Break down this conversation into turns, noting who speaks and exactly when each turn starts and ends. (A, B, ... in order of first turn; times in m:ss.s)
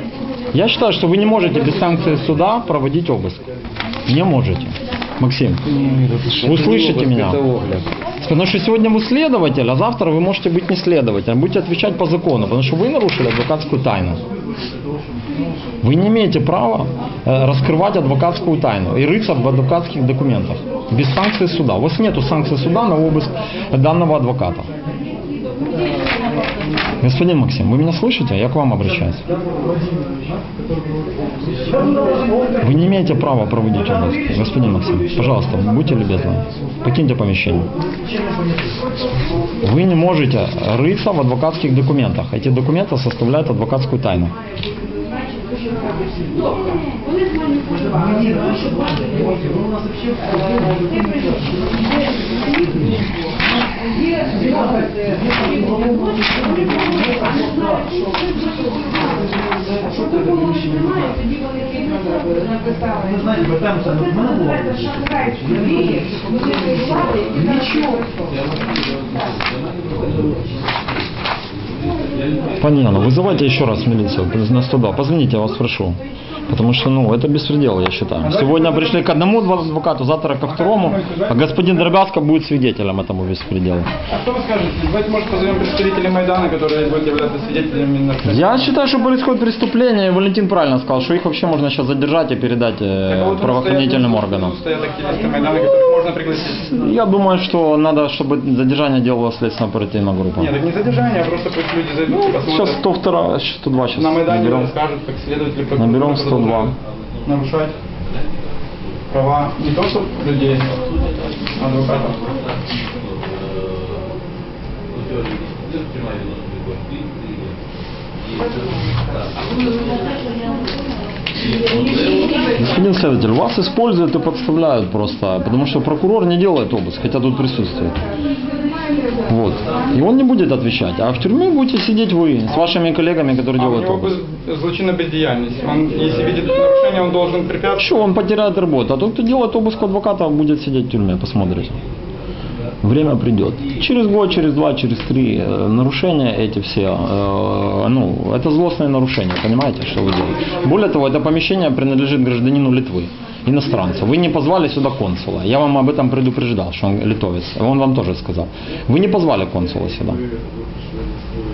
0:00.5-0:03.4 A
0:04.1-0:05.6 A
0:05.7-0:07.9 B
0:06.4-0:07.4 A
0:08.2-0:14.2 A
0:15.8-0:24.7 A
0:27.0-0:29.2 A
0:32.6-0:37.7 A
0:39.6-0:44.3 A
0:48.0-0:48.7 B
1:03.5-1:04.1 B
1:04.8-1:05.3 B
1:12.6-1:23.9 A
1:18.2-1:19.2 C
1:20.4-1:21.9 C
1:24.1-1:28.7 C
1:28.3-1:34.6 A
1:33.1-1:36.9 C
1:36.7-1:40.5 A
1:40.4-1:42.8 C
1:42.1-1:44.7 A
1:44.0-1:46.7 C
1:45.8-1:46.7 A
1:47.2-1:47.8 C
1:49.1-1:50.7 C
1:51.6-1:52.4 C
2:02.6-2:08.0 A
2:09.3-2:14.2 A
2:13.6-2:18.1 C
2:17.8-2:21.8 A
2:22.8-2:40.2 A